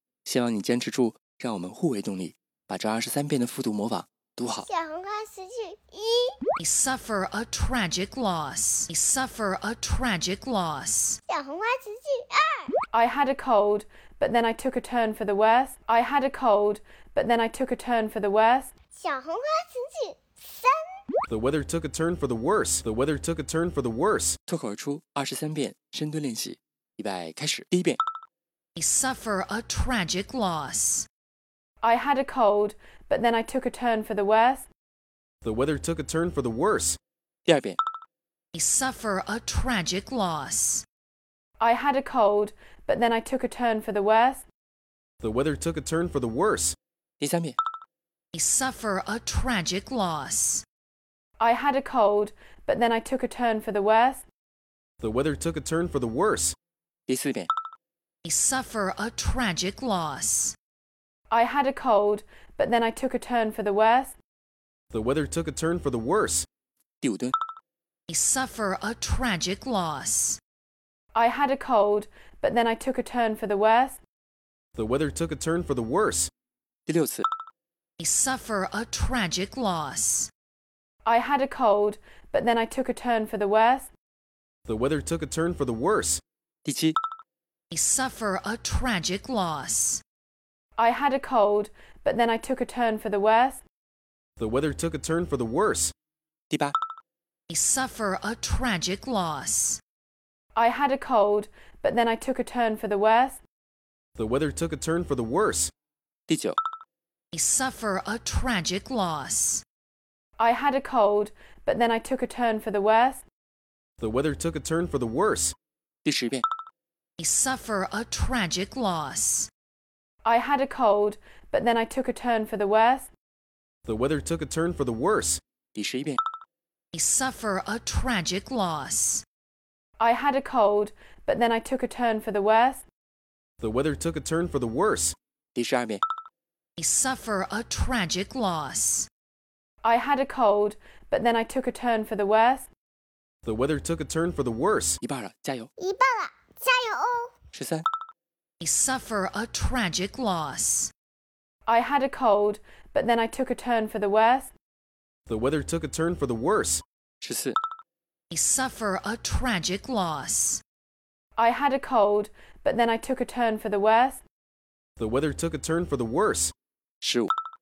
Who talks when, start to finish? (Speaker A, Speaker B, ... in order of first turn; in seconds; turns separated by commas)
Speaker A: 0.3-4.7, Speaker B: 4.7-6.3, Speaker C: 6.6-11.2, Speaker B: 11.3-12.7, Speaker D: 12.9-18.7, Speaker B: 19.0-20.8, Speaker E: 21.3-24.4, Speaker A: 24.5-28.0, Speaker C: 28.8-31.1, Speaker D: 31.8-34.7, Speaker E: 35.4-37.0, Speaker A: 37.5-37.8, Speaker C: 38.5-40.9, Speaker D: 41.6-44.5, Speaker E: 45.2-46.8, Speaker A: 47.2-47.6, Speaker C: 48.3-50.6, Speaker D: 51.4-54.2, Speaker E: 55.0-56.5, Speaker A: 57.1-57.5, Speaker C: 58.2-60.6, Speaker D: 61.3-64.2, Speaker E: 64.9-66.5, Speaker A: 67.0-67.3, Speaker C: 68.1-70.4, Speaker D: 71.2-74.0, Speaker E: 74.8-76.3, Speaker A: 76.9-77.3, Speaker C: 78.0-80.3, Speaker D: 81.1-83.9, Speaker E: 84.7-86.2, Speaker A: 86.7-87.0, Speaker C: 87.7-90.0, Speaker D: 90.8-93.6, Speaker E: 94.4-95.9, Speaker A: 96.5-96.8, Speaker C: 97.5-99.8, Speaker D: 100.6-103.4, Speaker E: 104.2-105.7, Speaker A: 106.3-106.6, Speaker C: 107.3-109.6, Speaker D: 110.4-113.2, Speaker E: 114.0-115.5, Speaker A: 116.0-116.4, Speaker C: 117.2-119.5, Speaker D: 120.2-123.1, Speaker E: 123.9-125.4, Speaker A: 125.8-126.2, Speaker C: 126.9-129.2, Speaker D: 130.0-132.8, Speaker E: 133.6-135.2, Speaker A: 135.6-136.0, Speaker C: 136.8-139.1, Speaker D: 139.8-142.7, Speaker E: 143.4-145.0, Speaker A: 145.0-145.7, Speaker B: 145.8-147.3, Speaker A: 147.5-147.8, Speaker C: 148.6-150.9, Speaker D: 151.7-154.5, Speaker E: 155.3-156.8, Speaker A: 157.2-157.6, Speaker C: 158.3-160.6, Speaker D: 161.4-164.2, Speaker E: 165.0-166.5, Speaker A: 167.0-167.3